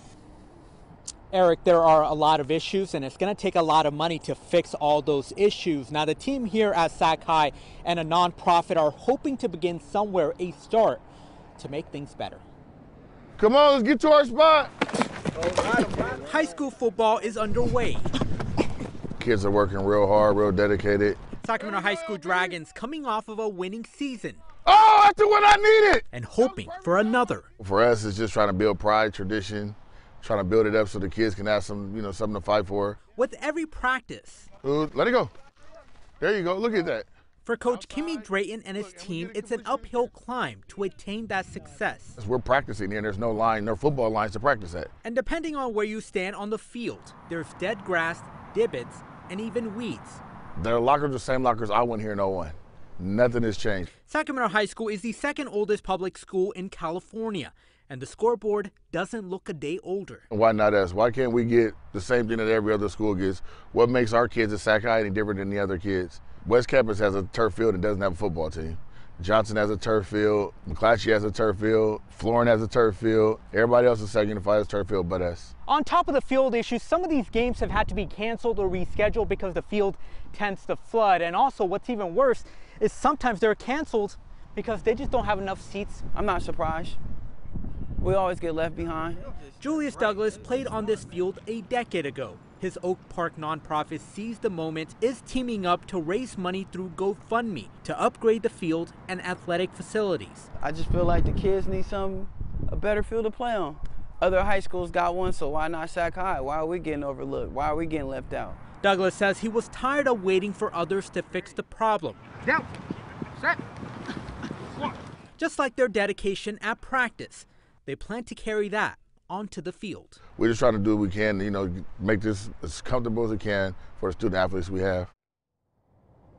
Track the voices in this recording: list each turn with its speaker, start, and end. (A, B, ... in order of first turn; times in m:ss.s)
0:01.3-0:11.0 A
0:11.6-0:12.4 A
0:13.4-0:14.7 B
0:16.0-0:18.1 A
0:19.2-0:21.2 B
0:21.4-0:24.4 A
0:24.6-0:26.1 B
0:26.1-0:27.5 A
0:27.6-0:33.0 B
0:33.1-0:34.5 A
0:34.6-0:35.3 B
0:36.2-0:37.1 B
0:37.4-0:42.2 A
0:39.2-0:39.7 B
0:42.2-0:44.9 B
0:45.0-0:50.2 A
0:50.6-0:53.9 B
0:54.0-1:00.2 A
1:00.3-1:15.5 B
1:15.7-1:26.1 A
1:26.1-1:27.0 C
1:28.0-1:29.7 C
1:29.6-1:40.5 A
1:40.6-1:48.6 C
1:48.8-1:52.3 A
1:55.4-2:00.2 A
2:00.4-2:05.1 B